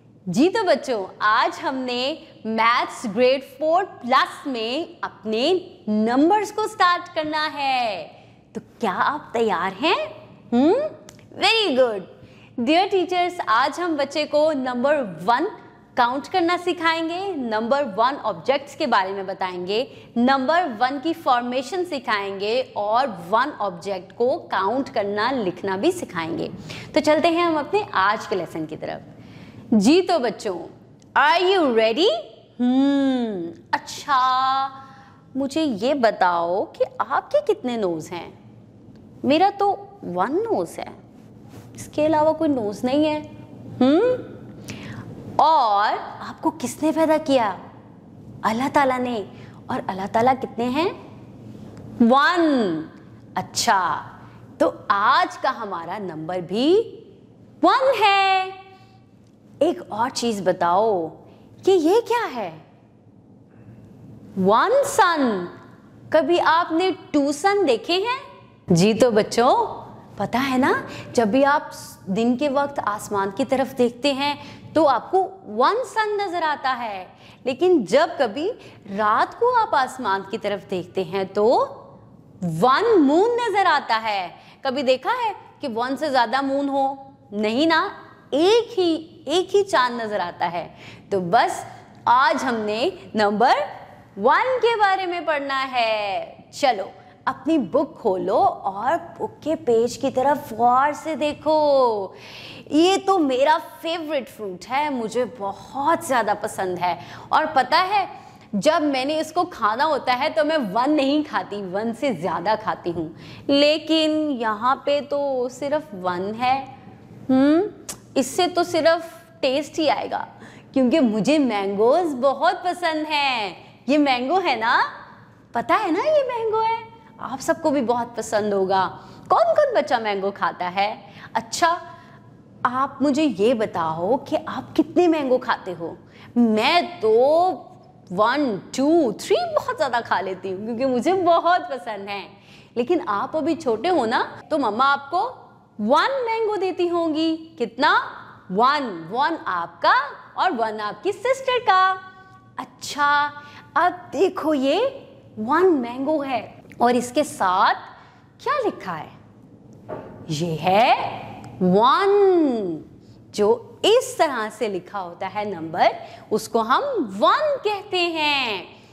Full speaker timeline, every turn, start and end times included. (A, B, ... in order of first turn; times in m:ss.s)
0:00.3-0:29.1 A
0:29.7-0:34.8 A
0:35.3-0:38.3 A
0:39.2-0:41.0 A
0:41.8-0:44.4 A
0:45.4-0:47.6 A
0:48.4-0:50.9 A
0:52.0-0:57.0 A
0:57.6-0:58.6 A
0:59.6-1:02.6 A
1:04.4-1:05.5 A
1:06.1-1:21.8 A
1:22.4-1:56.7 A
1:57.3-2:04.9 A
2:05.5-2:11.8 A
2:12.6-2:32.0 A
2:32.6-2:37.8 A
2:38.4-2:39.1 A
2:40.3-2:48.7 A